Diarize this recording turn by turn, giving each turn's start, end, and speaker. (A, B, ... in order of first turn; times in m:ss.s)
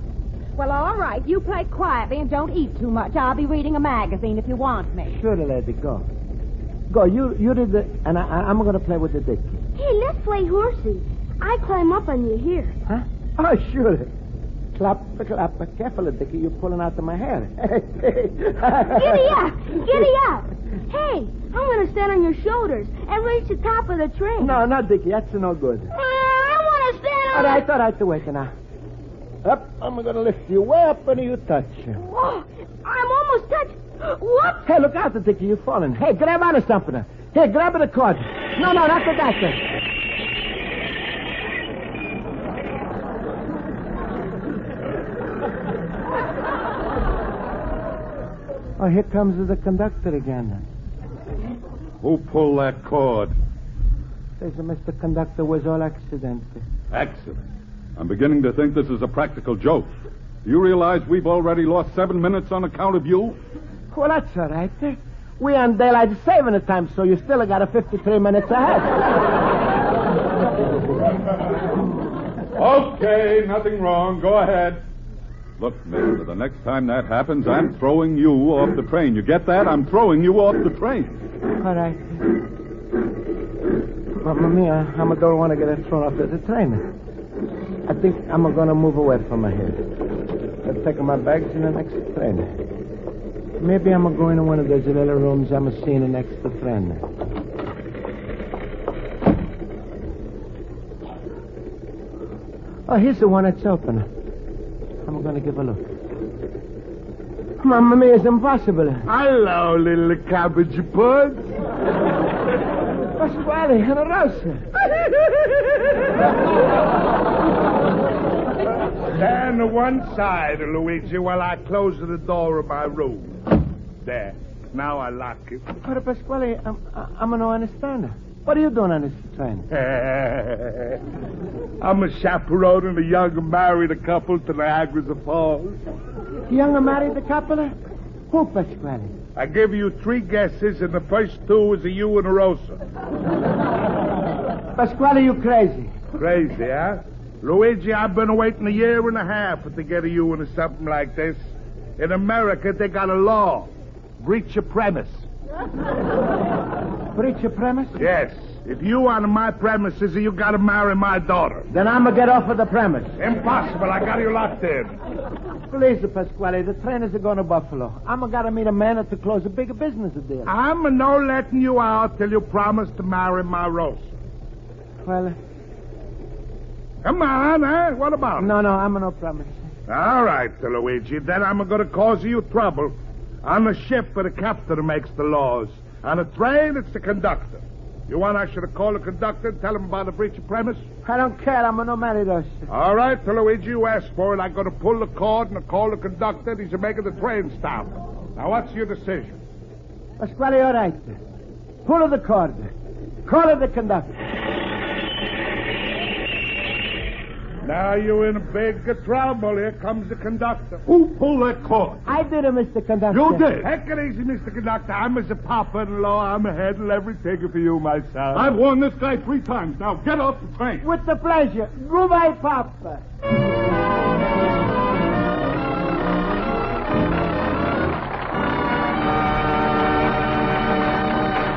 0:00.6-0:05.1 A
0:05.1-0:06.0 B
0:06.9-0:09.6 B
0:09.8-0:12.7 C
0:12.9-0:14.1 B
0:14.8-0:19.7 B
0:18.9-0:24.5 C
0:24.4-0:25.9 B
0:25.9-0:27.6 C
0:27.3-0:28.5 B
0:29.4-0:32.0 B
0:32.0-0:34.6 C
0:34.6-0:39.6 B
0:48.8-0:50.6 B
0:52.0-0:53.3 D
0:54.4-0:56.6 B
0:56.9-0:57.5 D
0:58.0-0:59.9 D
1:00.4-1:03.4 D
1:03.9-1:09.3 B
1:12.6-1:14.8 D
1:15.6-1:21.2 D
1:21.5-1:22.2 B
1:24.2-1:26.9 B
1:27.9-1:29.8 B
1:30.6-1:32.5 B
1:33.6-1:37.0 B
1:42.9-1:44.1 B
1:45.1-1:45.9 B
1:47.6-1:49.1 B
1:49.1-1:51.5 E
1:53.2-1:54.6 B
1:59.1-2:05.6 E
2:05.8-2:09.7 B
2:09.7-2:11.0 E
2:11.8-2:15.8 E
2:16.5-2:17.7 B
2:18.3-2:19.2 B
2:19.4-2:22.8 E
2:24.8-2:25.9 B
2:26.2-2:31.4 E
2:32.0-2:33.7 E
2:34.2-2:35.3 E
2:37.1-2:38.0 B
2:38.0-2:41.7 E
2:41.7-2:43.2 B
2:43.2-2:44.9 E
2:45.7-2:50.5 B
2:50.5-2:54.0 E
2:55.0-2:55.3 B
2:57.0-2:58.5 E
2:58.4-2:59.5 B
2:59.9-3:02.9 E
3:03.4-3:10.8 E
3:11.0-3:12.7 B
3:12.7-3:19.4 E
3:20.2-3:21.2 B
3:21.8-3:22.7 B
3:23.2-3:24.1 B
3:27.6-3:30.8 E
3:30.9-3:32.0 D
3:32.1-3:33.5 B
3:33.1-3:33.7 D
3:33.6-3:38.6 E
3:38.4-3:40.8 D
3:40.8-3:43.0 B